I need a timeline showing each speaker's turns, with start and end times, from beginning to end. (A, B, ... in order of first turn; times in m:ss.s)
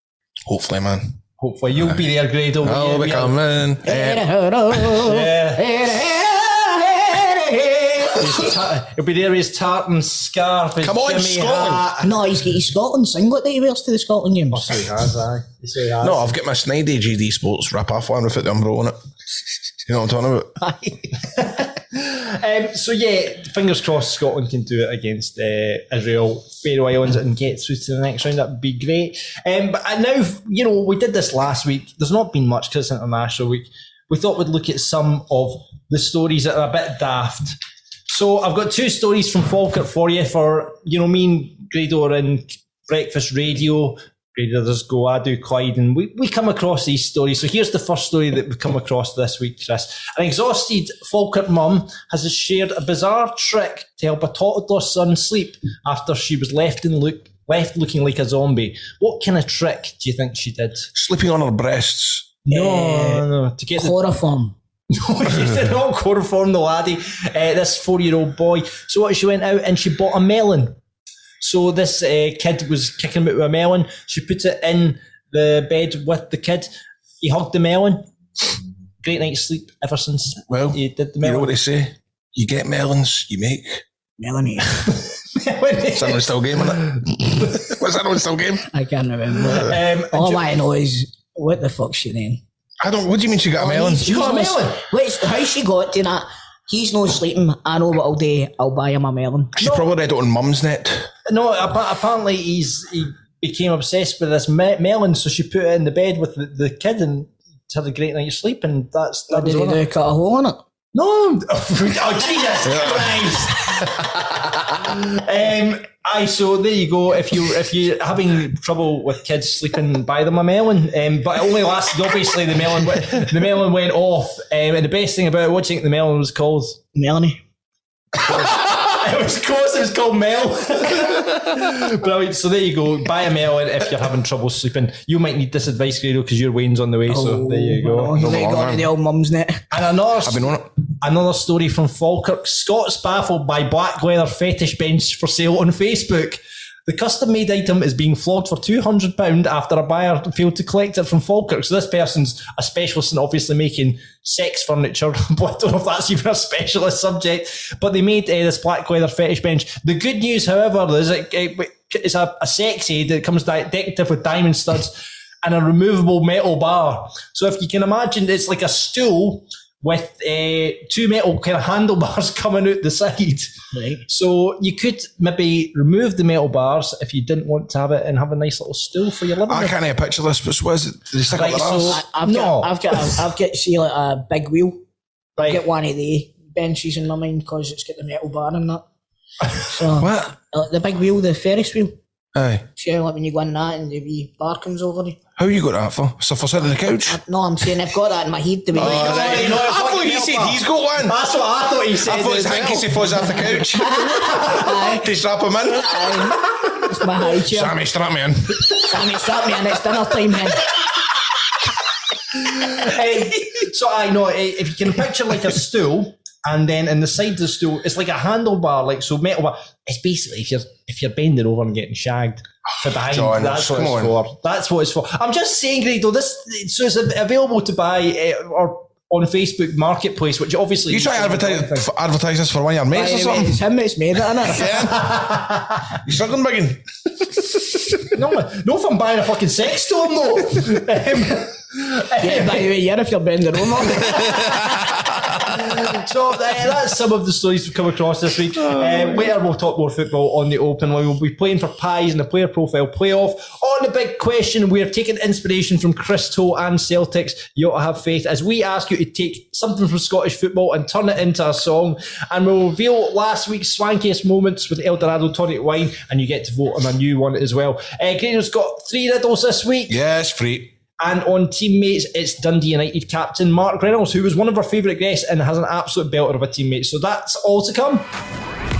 0:00.5-0:01.1 A
0:01.4-0:03.4 B
0:02.6-0:04.3 A
0:03.8-0:08.4 C
0:05.0-0:05.6 B
0:08.2-0:12.1 B
0:10.8-0:11.9 A
0:12.0-0:14.8 C
0:14.5-0:16.3 B
0:16.0-0:19.0 A
0:19.8-0:20.6 A
0:20.6-0:21.0 C
0:21.2-0:37.6 B
0:38.1-1:00.9 B
1:00.9-1:02.3 A
1:02.4-1:03.9 B
1:02.5-1:03.2 C
1:03.8-1:04.6 C
1:04.9-1:10.8 B
1:11.4-1:16.7 B
1:17.2-1:18.1 B
1:19.0-1:21.5 B
1:20.5-1:23.8 A
1:24.2-1:24.9 C
1:25.3-1:27.0 B
1:25.9-1:28.6 A
1:28.7-1:32.4 C
1:29.6-1:30.5 B
1:32.8-1:34.2 A
1:33.6-1:39.5 C
1:33.8-1:34.8 B
1:39.6-1:41.1 A
1:39.6-1:39.9 B
1:41.3-1:49.8 B
1:49.3-1:50.6 C
1:50.9-2:06.8 B
1:52.6-1:53.3 A
2:06.9-2:07.4 C
2:08.2-2:18.2 B
2:17.1-2:19.6 C
2:18.1-2:18.9 A
2:19.7-2:53.5 B
2:20.2-2:20.7 A
2:53.7-2:54.0 C
2:54.1-2:59.8 B
2:59.5-3:02.0 A
3:01.3-3:03.1 B
3:01.9-3:04.8 C
3:05.4-3:05.6 B
3:05.4-3:08.8 C
3:09.6-3:11.9 C
3:10.0-3:10.3 A
3:12.3-3:12.6 A
3:12.8-3:15.2 C
3:15.4-3:17.2 A
3:17.0-3:19.4 C
3:18.7-3:21.2 A
3:18.7-3:23.6 B
3:22.0-3:26.4 A
3:23.8-3:25.0 C
3:25.8-3:27.7 C
3:27.3-3:28.9 A
3:28.9-3:30.7 C
3:32.3-3:51.9 B
3:42.8-3:44.2 A
3:50.9-3:53.6 A
3:52.9-3:54.8 C
3:54.4-3:55.1 A
3:54.9-3:55.8 B
3:56.0-3:56.8 A
3:57.4-3:58.0 A
3:58.1-4:02.7 B
4:02.2-4:04.6 C
4:05.4-4:30.0 B
4:29.9-4:30.8 A
4:31.0-4:38.1 B